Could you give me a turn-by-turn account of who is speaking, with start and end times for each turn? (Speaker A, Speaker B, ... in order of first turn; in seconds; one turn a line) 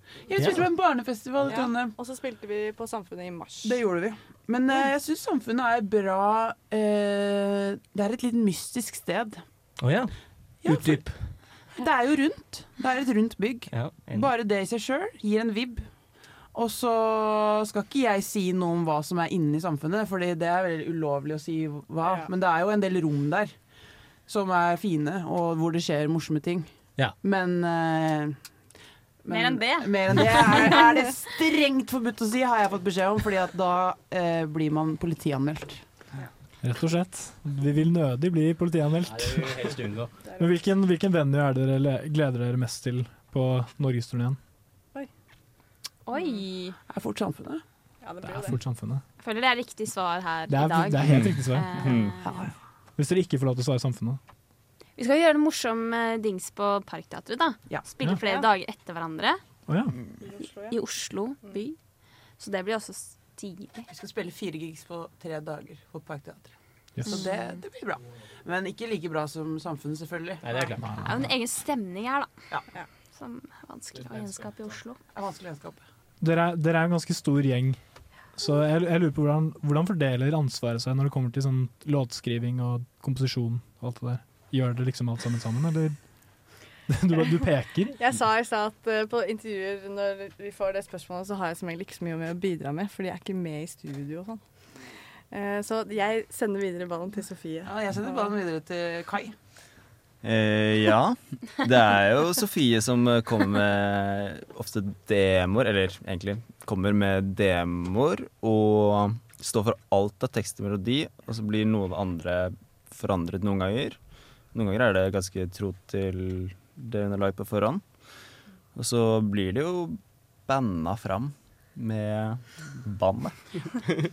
Speaker A: 0.3-1.9
Speaker B: 1.5-3.8
Speaker A: 3.6-9.4
Speaker C: 9.8-10.1
Speaker A: 10.6-11.1
Speaker C: 10.7-11.2
Speaker A: 11.8-15.8
Speaker C: 13.7-14.3
Speaker A: 16.5-23.5
Speaker A: 24.3-26.7
Speaker A: 27.2-28.4
Speaker A: 29.2-35.8
Speaker C: 29.3-29.9
Speaker C: 30.5-30.7
Speaker D: 36.6-39.6
Speaker C: 39.0-40.1
Speaker D: 40.4-44.4
Speaker E: 46.1-46.8
Speaker A: 46.9-47.6
Speaker B: 48.0-48.6
Speaker D: 48.2-49.0
Speaker E: 49.2-52.5
Speaker D: 50.5-52.0
Speaker F: 51.1-51.4
Speaker D: 53.0-54.2
Speaker E: 55.0-59.4
Speaker B: 58.1-58.5
Speaker D: 59.7-60.0
Speaker B: 60.2-60.8
Speaker E: 60.5-61.8
Speaker E: 62.4-63.9
Speaker A: 63.9-66.5
Speaker A: 67.1-70.6
Speaker E: 67.1-67.5
Speaker C: 70.4-71.1
Speaker D: 70.8-71.3
Speaker E: 71.0-72.3
Speaker E: 73.2-75.0
Speaker A: 75.1-75.8
Speaker D: 76.2-77.8
Speaker D: 78.4-86.0
Speaker D: 86.9-88.0
Speaker B: 87.9-94.4
Speaker B: 95.3-97.7
Speaker A: 97.7-99.3
Speaker F: 100.2-114.0
Speaker F: 114.5-117.8
Speaker F: 118.8-123.3